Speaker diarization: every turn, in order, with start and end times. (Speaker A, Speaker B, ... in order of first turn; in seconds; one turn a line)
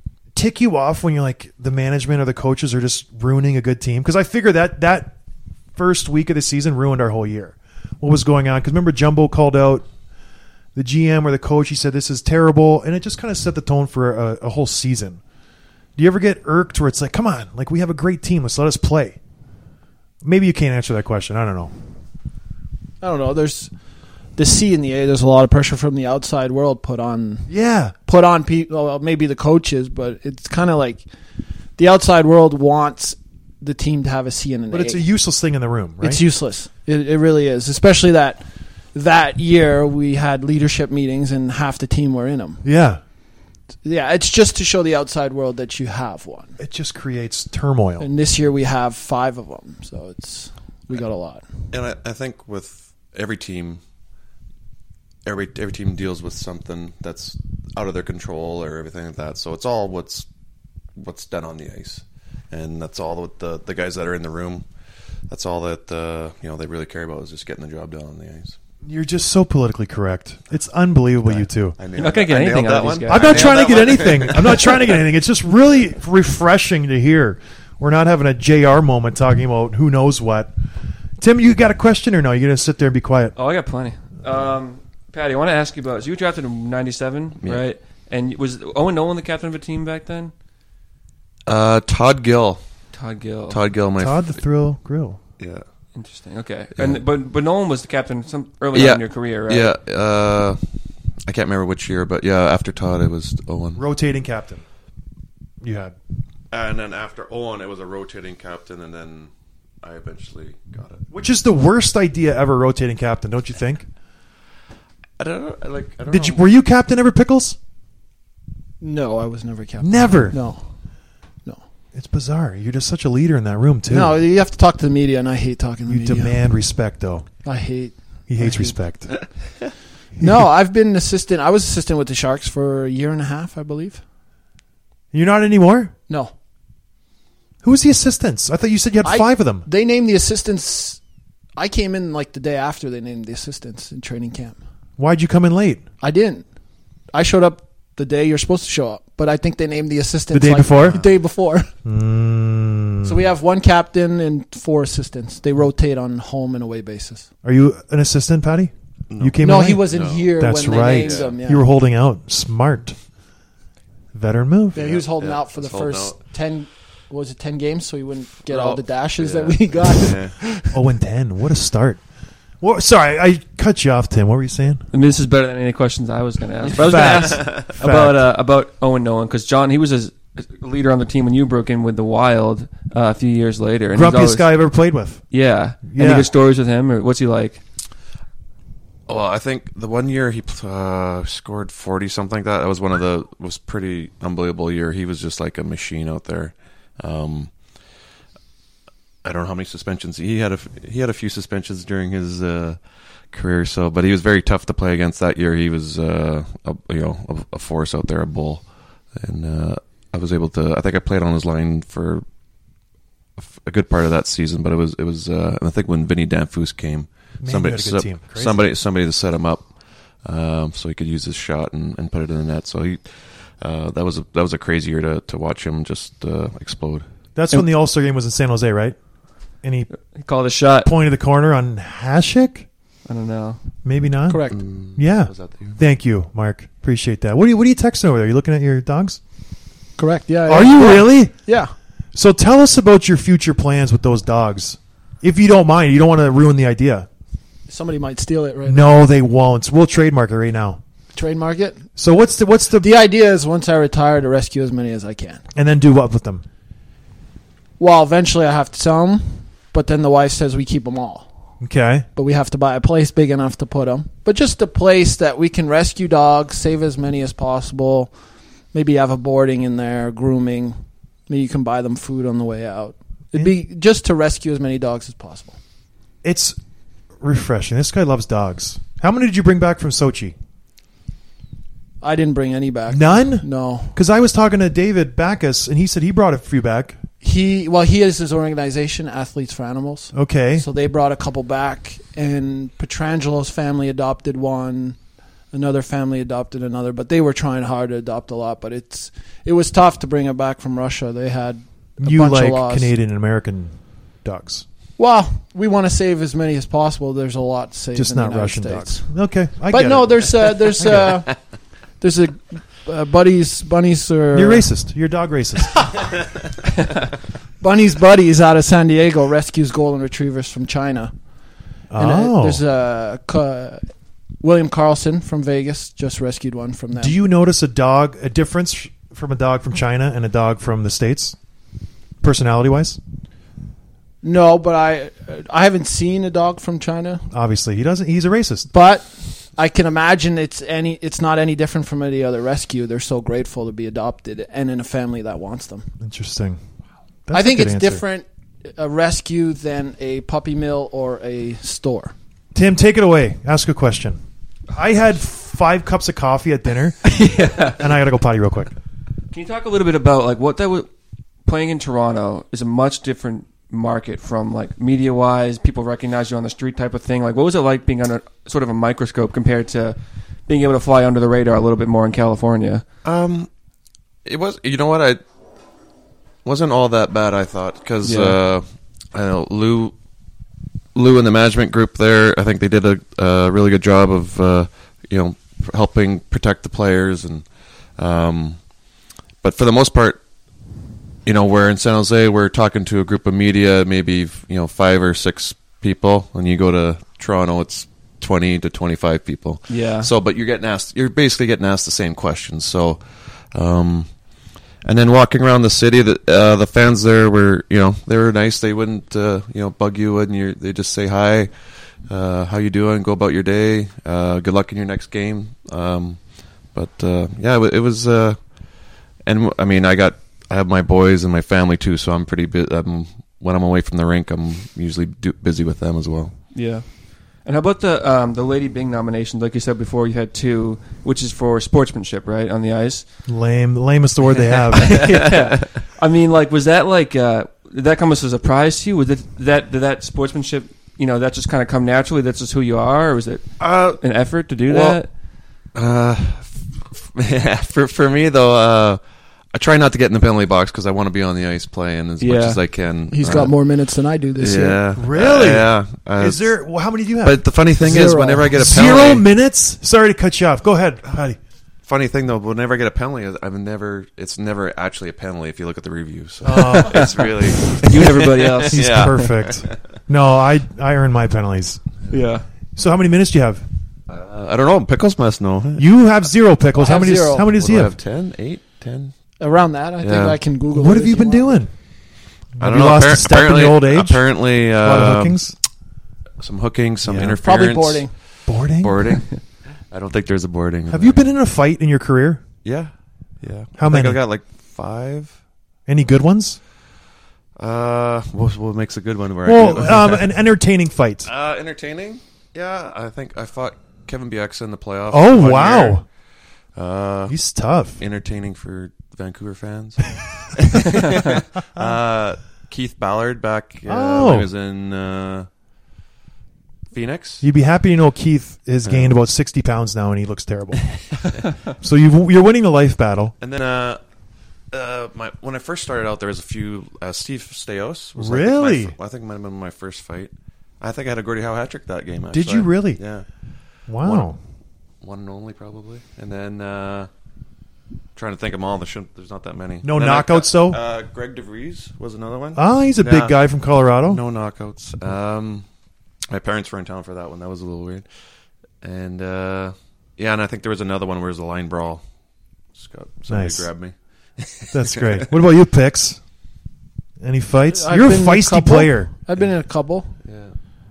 Speaker A: 0.3-5.1
Speaker A: 5.8-9.8
Speaker A: 10.8-15.2
Speaker A: 16.0-19.2
Speaker A: 20.2-21.7
Speaker B: 23.0-23.7
Speaker B: 24.4-27.5
Speaker A: 27.5-27.9
Speaker B: 28.1-31.0
Speaker B: 31.8-35.0
Speaker A: 34.7-36.2
Speaker B: 36.0-42.6
Speaker A: 42.6-43.0
Speaker B: 43.8-46.6
Speaker A: 46.6-48.1
Speaker B: 48.0-51.4
Speaker C: 51.7-53.8
Speaker C: 55.2-60.3
Speaker C: 61.0-64.7
Speaker C: 65.3-68.5
Speaker A: 68.8-71.8
Speaker C: 71.2-75.0
Speaker D: 71.9-74.0
Speaker A: 73.1-80.5
Speaker A: 81.2-83.3
Speaker D: 83.4-90.3
Speaker C: 91.5-92.6
Speaker D: 92.9-93.6
Speaker C: 93.5-94.4
Speaker A: 94.0-95.2
Speaker D: 95.9-99.7
Speaker C: 98.7-100.6
Speaker C: 101.2-103.8
Speaker A: 103.8-104.6
Speaker A: 105.6-106.0
Speaker C: 106.5-109.3
Speaker C: 109.8-111.0
Speaker A: 111.1-113.9
Speaker C: 115.2-116.4
Speaker A: 116.1-117.6
Speaker B: 118.8-120.6
Speaker A: 119.8-120.4
Speaker A: 121.9-124.2
Speaker B: 123.9-126.4
Speaker A: 125.9-127.2
Speaker B: 127.4-128.8
Speaker A: 128.3-129.1
Speaker A: 130.2-130.5
Speaker B: 130.2-134.0
Speaker A: 135.1-135.9
Speaker A: 137.6-139.7
Speaker B: 139.0-141.0
Speaker B: 141.6-144.6
Speaker A: 145.0-145.8
Speaker B: 146.0-146.4
Speaker B: 147.1-151.7
Speaker A: 150.3-151.0
Speaker A: 151.8-153.2
Speaker B: 153.0-157.3
Speaker A: 157.4-163.0
Speaker C: 159.1-161.3
Speaker B: 159.4-161.6
Speaker A: 164.1-164.9
Speaker B: 164.8-170.7
Speaker C: 164.8-166.2
Speaker C: 168.5-170.4
Speaker A: 170.7-172.0
Speaker A: 172.6-174.8
Speaker D: 174.9-184.5
Speaker A: 176.8-178.2
Speaker A: 183.9-185.2
Speaker D: 185.3-187.6
Speaker A: 185.9-186.3
Speaker C: 189.1-197.5
Speaker C: 199.2-202.8
Speaker C: 203.3-208.6
Speaker C: 209.2-212.2
Speaker C: 213.4-219.7
Speaker A: 217.4-218.7
Speaker C: 220.2-223.1
Speaker C: 223.6-227.1
Speaker A: 227.4-229.0
Speaker A: 229.6-229.9
Speaker D: 230.1-230.9
Speaker A: 230.8-232.7
Speaker D: 233.1-233.6
Speaker A: 233.8-239.2
Speaker B: 234.3-234.6
Speaker C: 234.5-235.8
Speaker B: 240.0-241.7
Speaker A: 240.5-241.4
Speaker A: 242.1-247.1
Speaker B: 247.7-248.9
Speaker A: 248.7-250.8
Speaker B: 251.1-251.8
Speaker A: 252.0-253.0
Speaker B: 252.8-255.4
Speaker A: 255.5-256.4
Speaker B: 257.8-261.3
Speaker A: 261.6-262.1
Speaker B: 262.1-268.1
Speaker B: 268.7-270.8
Speaker B: 271.3-275.6
Speaker A: 276.2-276.6
Speaker A: 277.2-280.4
Speaker B: 282.0-284.0
Speaker A: 282.9-287.0
Speaker B: 287.2-295.0
Speaker A: 290.1-290.6
Speaker B: 295.5-302.9
Speaker A: 302.0-304.6
Speaker B: 305.0-309.1
Speaker A: 307.9-311.2
Speaker B: 309.7-311.3
Speaker B: 312.0-314.7
Speaker A: 314.3-316.0
Speaker B: 317.6-321.1
Speaker A: 321.9-322.6
Speaker B: 322.0-323.9
Speaker B: 324.4-327.1
Speaker A: 326.9-331.4
Speaker A: 332.2-333.0
Speaker B: 334.2-337.2
Speaker A: 337.3-338.7
Speaker B: 338.7-345.9
Speaker A: 346.0-346.6
Speaker A: 347.3-348.0
Speaker B: 347.3-352.1
Speaker A: 352.5-354.2
Speaker A: 354.7-358.7
Speaker D: 357.1-357.8
Speaker D: 359.3-360.9
Speaker D: 361.4-372.8
Speaker C: 373.0-373.5
Speaker C: 374.2-375.2
Speaker C: 376.4-379.9
Speaker D: 378.0-378.4
Speaker C: 380.9-388.6
Speaker C: 389.4-390.2
Speaker C: 391.2-404.1
Speaker D: 399.7-400.1
Speaker C: 404.8-411.5
Speaker C: 412.1-416.2
Speaker C: 416.7-418.4
Speaker C: 419.2-426.4
Speaker D: 426.5-426.9
Speaker D: 427.4-433.0
Speaker A: 433.3-435.2
Speaker D: 434.7-445.1
Speaker C: 434.9-435.6
Speaker C: 443.6-444.0
Speaker C: 444.7-445.0
Speaker C: 445.7-449.0
Speaker C: 449.5-453.6
Speaker D: 452.2-452.6
Speaker B: 453.1-454.8
Speaker C: 454.4-456.5
Speaker A: 454.9-457.4
Speaker C: 457.2-459.2
Speaker B: 457.8-458.6
Speaker A: 458.5-461.4
Speaker C: 461.9-469.8
Speaker A: 466.4-467.2
Speaker D: 466.7-467.1
Speaker D: 467.7-469.1
Speaker A: 468.7-471.8
Speaker D: 472.1-472.4
Speaker A: 472.8-473.6
Speaker C: 474.1-475.9
Speaker A: 475.8-477.9
Speaker B: 476.8-477.5
Speaker C: 477.5-479.1
Speaker B: 479.4-481.6
Speaker C: 480.0-480.4
Speaker A: 480.7-481.7
Speaker A: 482.6-485.6
Speaker C: 482.6-485.4
Speaker C: 486.4-488.1
Speaker A: 487.0-487.4
Speaker B: 487.4-488.1
Speaker A: 488.5-489.1
Speaker C: 488.8-489.4
Speaker C: 489.9-491.2
Speaker A: 490.9-492.4
Speaker C: 492.6-495.4
Speaker A: 493.8-494.2
Speaker A: 495.9-496.6
Speaker C: 497.6-500.3
Speaker A: 499.4-501.3
Speaker C: 501.2-506.1
Speaker A: 505.1-506.0
Speaker C: 506.7-507.4
Speaker A: 507.3-508.0
Speaker C: 508.0-515.5
Speaker A: 513.9-514.5
Speaker C: 516.9-517.4
Speaker A: 517.4-521.0
Speaker C: 518.9-519.2
Speaker A: 521.8-523.4
Speaker C: 523.4-524.0
Speaker C: 524.7-533.2
Speaker A: 528.1-528.9
Speaker A: 532.3-533.0
Speaker A: 533.9-534.4
Speaker C: 534.0-534.3
Speaker C: 535.0-537.1
Speaker C: 538.1-543.4
Speaker A: 539.8-540.8
Speaker A: 542.6-544.2
Speaker C: 544.1-545.6
Speaker C: 546.3-548.1
Speaker C: 548.8-552.0
Speaker C: 552.7-555.3
Speaker A: 553.3-553.7
Speaker A: 554.7-556.2
Speaker A: 557.2-559.1
Speaker B: 557.7-560.1
Speaker C: 560.2-560.5